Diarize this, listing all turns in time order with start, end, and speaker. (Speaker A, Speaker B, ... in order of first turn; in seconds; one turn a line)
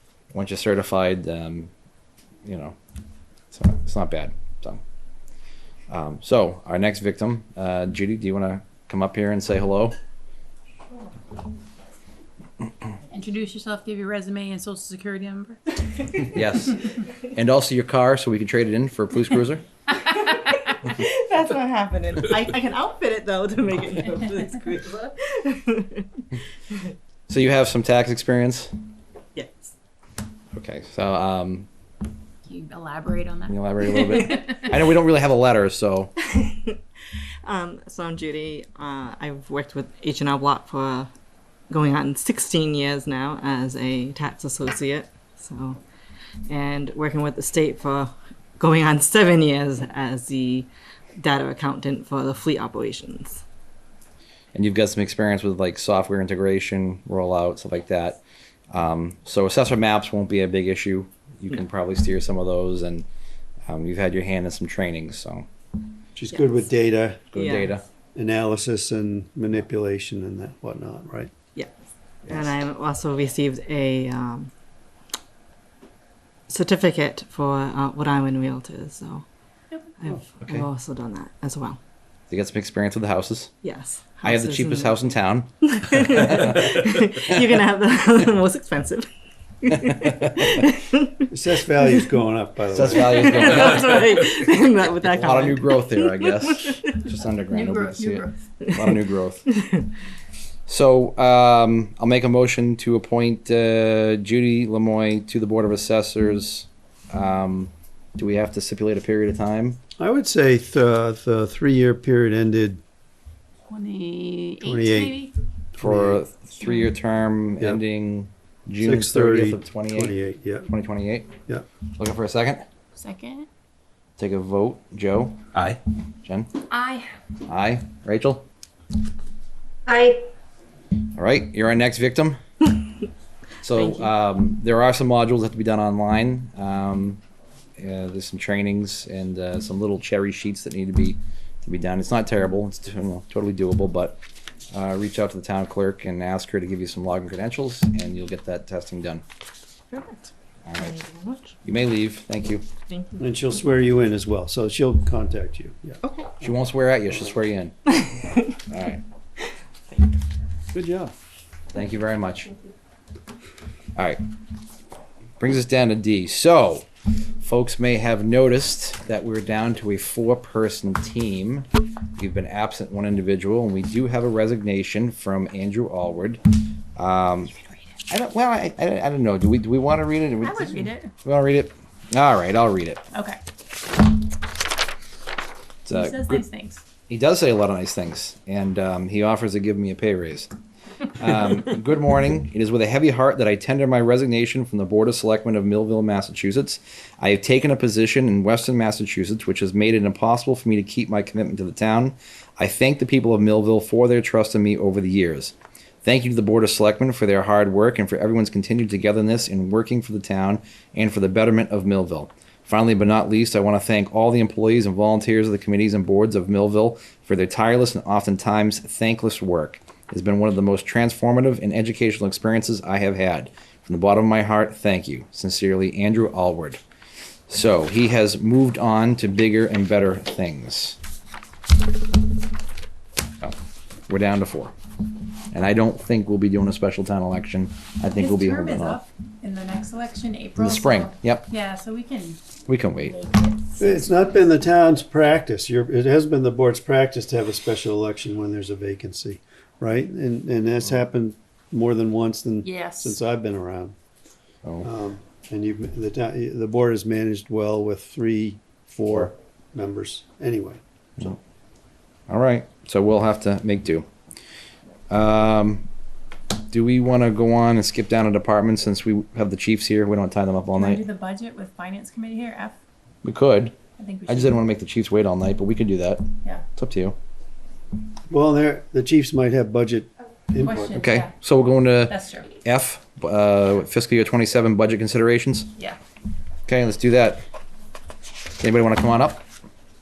Speaker A: 0.3-1.7
Speaker A: 2.5-2.8
Speaker A: 3.5-4.8
Speaker A: 5.9-9.9
Speaker B: 13.1-15.8
Speaker A: 16.2-19.6
Speaker C: 20.1-26.9
Speaker A: 27.3-28.7
Speaker C: 29.4-29.7
Speaker A: 30.5-31.7
Speaker B: 32.5-34.7
Speaker A: 33.5-36.1
Speaker C: 36.3-36.8
Speaker C: 37.4-41.1
Speaker C: 41.7-45.8
Speaker C: 46.5-53.4
Speaker A: 54.5-63.1
Speaker A: 63.7-65.5
Speaker D: 66.2-67.3
Speaker A: 67.3-67.8
Speaker C: 67.3-67.7
Speaker D: 68.2-71.3
Speaker C: 72.3-74.5
Speaker C: 76.5-79.2
Speaker C: 80.0-81.8
Speaker A: 82.3-83.5
Speaker C: 83.6-85.0
Speaker A: 84.2-87.2
Speaker C: 85.6-89.1
Speaker C: 89.6-91.2
Speaker A: 89.9-90.5
Speaker D: 91.3-93.4
Speaker A: 92.7-94.0
Speaker C: 93.1-97.0
Speaker A: 95.1-99.5
Speaker B: 97.5-98.3
Speaker C: 98.7-99.9
Speaker A: 100.7-109.8
Speaker D: 110.0-112.8
Speaker B: 113.7-115.3
Speaker D: 114.6-116.2
Speaker A: 115.8-120.2
Speaker D: 118.8-120.7
Speaker A: 120.7-121.3
Speaker A: 122.0-122.6
Speaker B: 123.0-123.5
Speaker A: 124.2-126.5
Speaker B: 126.7-127.1
Speaker A: 127.5-128.4
Speaker C: 129.9-130.2
Speaker A: 131.2-132.4
Speaker A: 133.6-137.2
Speaker C: 133.8-134.0
Speaker A: 137.8-144.2
Speaker A: 144.7-149.2
Speaker C: 149.9-151.6
Speaker A: 150.7-151.0
Speaker A: 151.6-152.7
Speaker C: 152.9-153.2
Speaker D: 153.2-156.5
Speaker C: 156.0-156.3
Speaker A: 156.4-157.9
Speaker A: 158.7-159.0
Speaker D: 160.7-161.1
Speaker A: 161.7-162.5
Speaker A: 164.0-164.2
Speaker A: 165.4-166.9
Speaker A: 167.4-176.4
Speaker A: 177.0-177.6
Speaker A: 178.1-183.0
Speaker B: 180.4-181.1
Speaker B: 183.1-183.4
Speaker A: 185.9-186.4
Speaker B: 185.9-186.8
Speaker A: 187.1-190.5
Speaker A: 191.1-226.8
Speaker A: 227.5-231.0
Speaker A: 234.1-234.7
Speaker A: 235.5-239.0
Speaker B: 238.2-242.5
Speaker A: 240.6-241.5
Speaker A: 242.7-243.2
Speaker B: 243.0-244.2
Speaker D: 243.8-253.9
Speaker B: 252.7-253.2
Speaker D: 254.8-261.4
Speaker A: 262.3-264.1
Speaker A: 265.1-265.9
Speaker A: 266.7-271.0
Speaker B: 270.8-272.8
Speaker A: 273.2-273.7
Speaker B: 274.0-274.6
Speaker A: 274.3-277.1
Speaker D: 278.3-281.0
Speaker B: 280.6-281.3
Speaker A: 280.9-285.7
Speaker B: 282.1-282.5
Speaker A: 286.7-287.4
Speaker A: 288.6-289.4